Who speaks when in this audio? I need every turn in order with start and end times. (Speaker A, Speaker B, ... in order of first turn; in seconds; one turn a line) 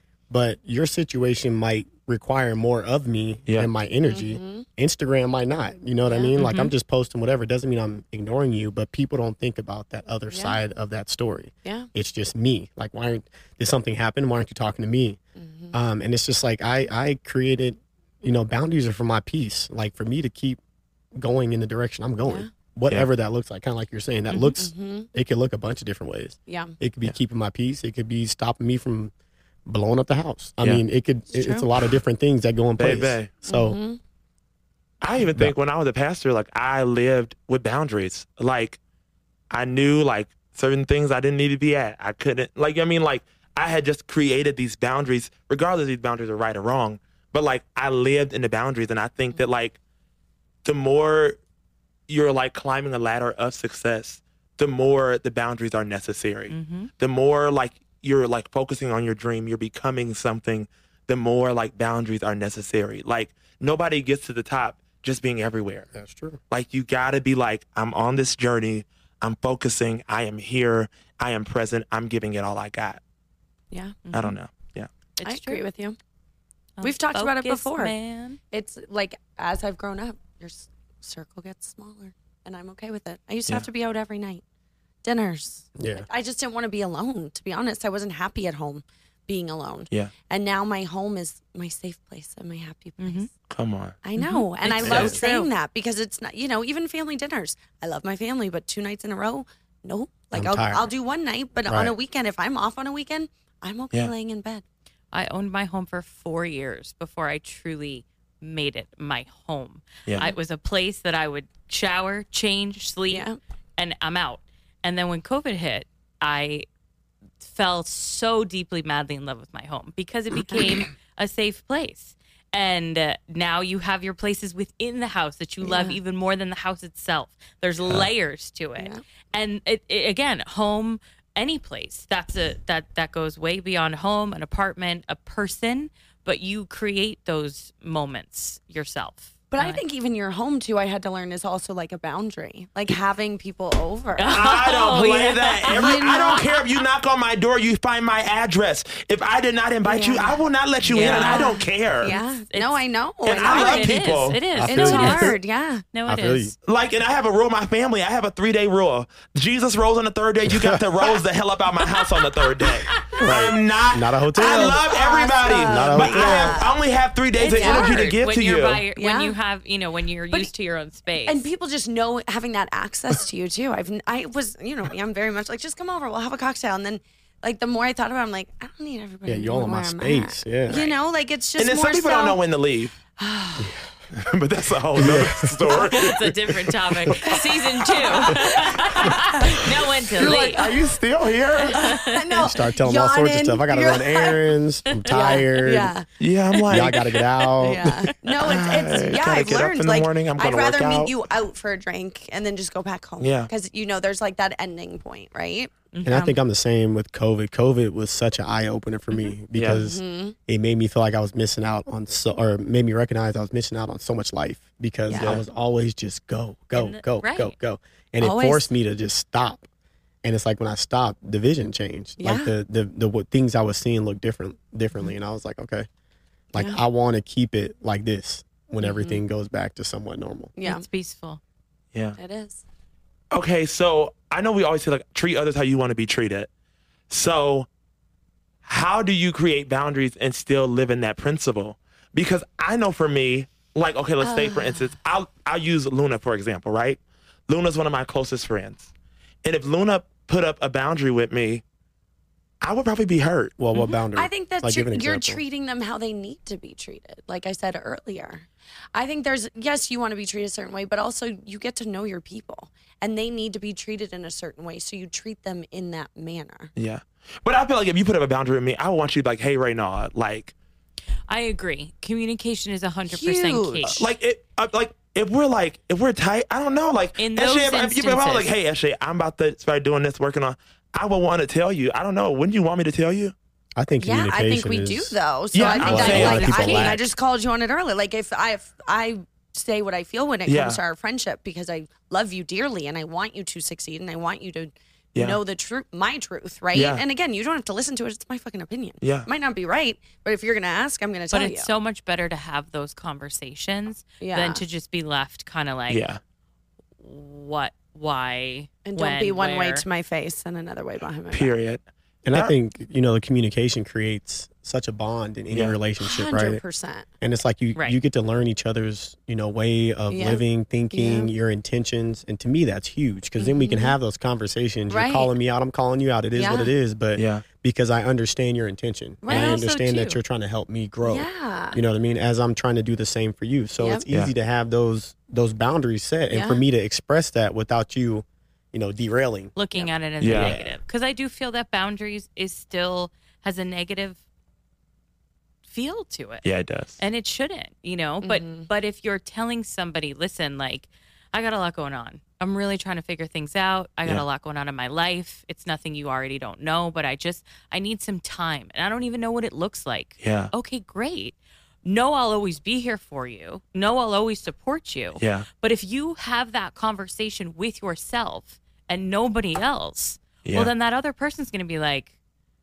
Speaker A: 0.3-15.2
Speaker B: 4.0-4.7
Speaker B: 6.1-6.3
Speaker C: 6.3-6.7
Speaker B: 10.3-10.6
Speaker B: 15.4-15.8
Speaker A: 15.7-20.6
Speaker A: 21.1-29.1
Speaker B: 24.4-25.1
Speaker B: 26.5-26.7
Speaker A: 29.6-33.8
Speaker B: 31.3-31.6
Speaker D: 32.8-33.3
Speaker B: 33.5-34.0
Speaker D: 35.0-38.8
Speaker D: 39.5-49.8
Speaker D: 50.6-51.4
Speaker D: 52.1-65.9
Speaker C: 56.5-56.9
Speaker A: 65.9-66.4
Speaker D: 66.5-73.0
Speaker B: 73.7-74.0
Speaker C: 74.0-74.3
Speaker D: 74.1-74.9
Speaker C: 75.2-75.6
Speaker B: 75.2-76.0
Speaker C: 76.8-78.4
Speaker B: 76.8-77.9
Speaker B: 78.5-84.4
Speaker B: 85.0-93.3
Speaker A: 85.8-86.1
Speaker C: 93.0-93.3
Speaker D: 93.5-94.0
Speaker B: 94.0-104.6
Speaker C: 94.2-95.5
Speaker D: 94.8-95.1
Speaker A: 94.8-95.2
Speaker A: 100.3-100.9
Speaker A: 101.7-101.9
Speaker C: 105.1-116.7
Speaker B: 113.1-113.4
Speaker C: 117.4-139.8
Speaker B: 120.5-120.8
Speaker B: 125.6-126.0
Speaker B: 128.8-129.0
Speaker B: 139.5-144.5
Speaker C: 144.2-146.5
Speaker D: 144.3-152.2
Speaker B: 145.7-146.6
Speaker B: 149.8-150.4
Speaker C: 150.9-155.3
Speaker B: 150.9-153.9
Speaker D: 153.2-154.4
Speaker A: 154.5-155.4
Speaker B: 154.7-155.8
Speaker C: 155.9-156.5
Speaker A: 156.1-156.5
Speaker D: 156.6-168.8
Speaker A: 160.5-160.8
Speaker C: 162.9-163.2
Speaker A: 163.2-164.8
Speaker B: 164.3-166.8
Speaker A: 165.4-166.6
Speaker C: 167.4-171.5
Speaker B: 167.4-168.1
Speaker B: 168.9-169.3
Speaker B: 171.2-182.4
Speaker A: 179.2-180.9
Speaker D: 181.6-182.9
Speaker B: 183.2-183.7
Speaker D: 184.1-186.2
Speaker A: 184.9-186.3
Speaker C: 185.7-190.6
Speaker A: 186.9-187.2
Speaker B: 187.2-189.6
Speaker B: 190.1-190.7
Speaker D: 190.2-191.9
Speaker B: 191.7-194.4
Speaker C: 191.7-192.4
Speaker A: 192.4-195.9
Speaker C: 194.9-195.4
Speaker B: 195.1-196.1
Speaker D: 196.2-197.0
Speaker A: 196.7-198.1
Speaker C: 196.8-197.9
Speaker B: 197.6-205.7
Speaker D: 198.4-201.1
Speaker D: 203.2-203.5
Speaker C: 205.9-206.4
Speaker A: 206.0-219.6
Speaker D: 209.5-209.8
Speaker B: 209.7-210.3
Speaker B: 215.1-215.4
Speaker D: 215.1-215.4
Speaker C: 216.7-217.5
Speaker B: 218.2-218.7
Speaker A: 220.2-225.9
Speaker B: 222.2-222.5
Speaker A: 226.5-230.5
Speaker B: 226.5-226.8
Speaker B: 228.8-229.2
Speaker B: 230.6-230.8
Speaker C: 230.6-231.4
Speaker B: 232.2-232.6
Speaker D: 233.3-236.5
Speaker D: 237.1-237.7
Speaker D: 238.6-248.9
Speaker B: 244.2-244.9
Speaker D: 249.4-251.6
Speaker D: 252.6-253.5
Speaker A: 253.6-255.4
Speaker C: 253.7-254.0
Speaker B: 254.1-266.7
Speaker D: 266.8-270.5
Speaker C: 271.3-274.1
Speaker B: 273.1-274.1
Speaker D: 273.9-283.3
Speaker C: 277.2-278.5
Speaker A: 283.8-287.0
Speaker B: 284.0-301.7
Speaker D: 285.5-287.0
Speaker C: 285.6-287.0
Speaker D: 290.4-290.8
Speaker D: 295.1-295.4
Speaker D: 296.7-297.0
Speaker D: 299.0-299.3
Speaker C: 301.3-306.1
Speaker B: 304.2-304.6
Speaker D: 305.9-306.2
Speaker C: 307.0-309.9
Speaker B: 308.8-311.6
Speaker D: 311.3-312.5
Speaker A: 312.2-316.6
Speaker D: 315.5-315.8
Speaker B: 316.0-317.1
Speaker A: 317.2-339.5
Speaker B: 320.1-321.3
Speaker B: 323.4-323.9
Speaker B: 324.9-325.3
Speaker B: 326.4-326.7
Speaker D: 327.1-327.4
Speaker B: 329.2-329.6
Speaker C: 329.3-330.2
Speaker B: 331.0-331.8
Speaker B: 333.8-334.0
Speaker B: 336.3-336.6
Speaker C: 339.6-344.2
Speaker D: 340.2-340.6
Speaker A: 340.3-340.8
Speaker C: 345.7-346.4
Speaker D: 346.4-347.0
Speaker C: 347.0-372.1
Speaker B: 348.2-348.7
Speaker D: 360.2-360.5
Speaker D: 365.2-365.5
Speaker D: 370.4-370.7